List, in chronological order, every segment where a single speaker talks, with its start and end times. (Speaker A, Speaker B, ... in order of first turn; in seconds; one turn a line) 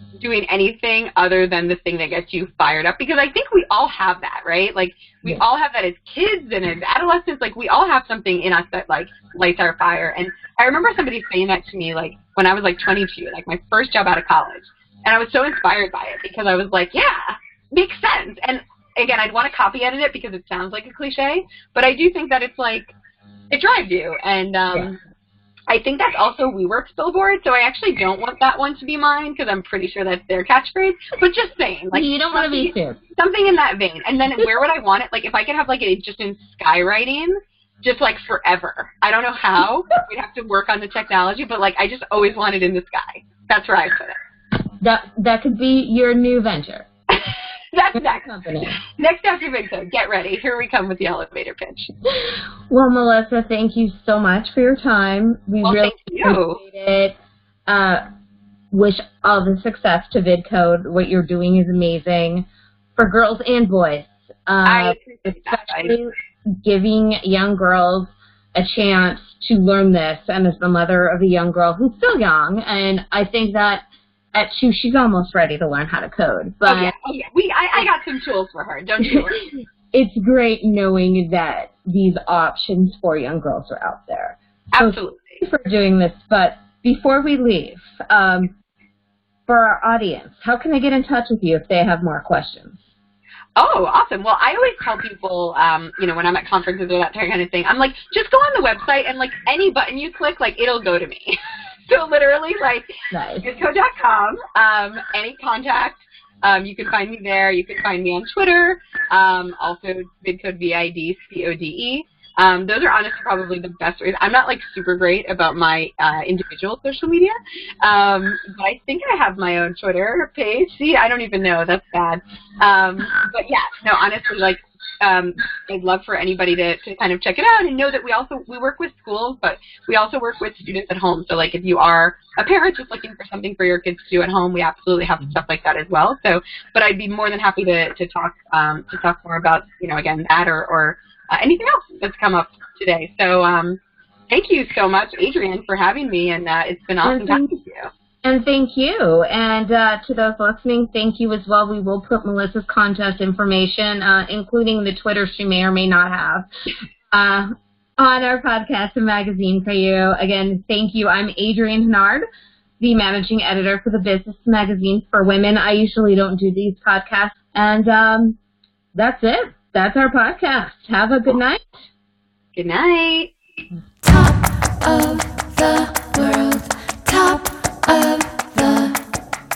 Speaker A: 0.2-22.9
Speaker A: 23.5-25.0
Speaker A: 25.7-44.2
Speaker B: 31.9-33.0
Speaker B: 44.8-46.9
Speaker A: 47.1-48.3
Speaker B: 48.0-48.8
Speaker A: 49.0-51.9
Speaker B: 52.2-57.2
Speaker A: 55.6-56.6
Speaker B: 57.7-58.0
Speaker B: 58.7-76.9
Speaker A: 64.7-66.0
Speaker A: 76.7-79.5
Speaker B: 79.9-88.5
Speaker A: 84.7-85.4
Speaker B: 89.5-92.8
Speaker A: 93.6-143.8
Speaker B: 103.1-103.5
Speaker A: 144.3-147.9
Speaker B: 147.0-147.5
Speaker B: 148.2-156.5
Speaker B: 157.1-162.3
Speaker B: 162.8-168.4
Speaker B: 168.9-171.8
Speaker A: 172.6-173.3
Speaker C: 174.0-178.9